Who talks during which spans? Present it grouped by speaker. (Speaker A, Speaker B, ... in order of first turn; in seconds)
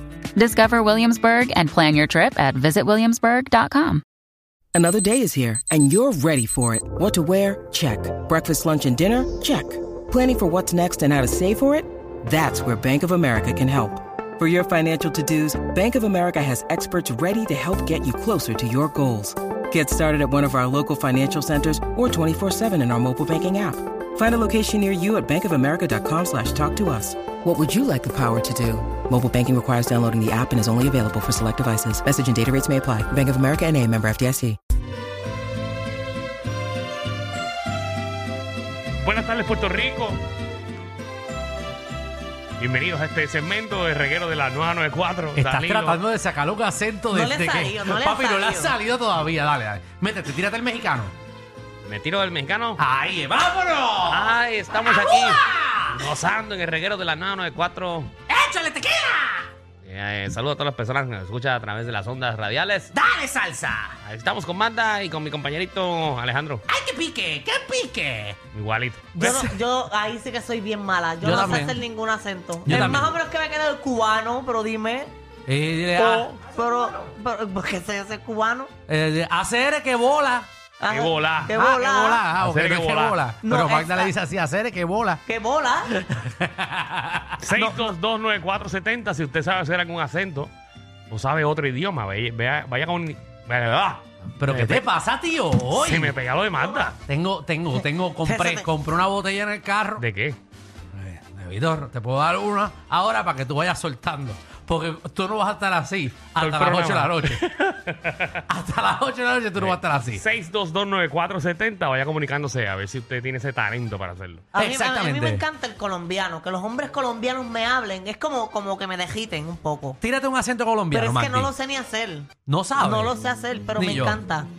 Speaker A: 0.4-4.0
Speaker B: 4.7-34.6
Speaker C: 39.0-40.2, 42.6-46.0, 51.9-52.8, 54.1-55.4, 55.9-58.1, 59.8-62.9, 64.0-66.6, 68.5-69.2, 76.0-76.4, 80.9-81.6, 82.4-83.2, 87.4-90.5, 91.1-94.8, 95.7-97.0, 100.0-100.4, 106.4-107.5, 108.0-108.4, 109.6-114.5
Speaker D: 45.4-51.1, 52.8-56.0, 58.3-59.5, 63.0-64.0, 66.7-68.4, 69.2-69.6, 71.2-71.8, 72.6-73.2, 75.5-76.4, 78.9-80.5, 81.5-85.2, 86.0-87.4, 94.4-96.2, 97.1-100.0, 100.9-107.8, 108.5-110.2, 114.6-115.4, 120.0-121.5, 122.5-123.2, 123.8-124.2
Speaker E: 47.1-48.8, 69.1-75.1, 76.0-78.7, 80.8-82.3, 83.4-84.1, 85.3-86.0, 87.5-87.9, 98.2-98.7, 114.5-120.0, 120.9-124.5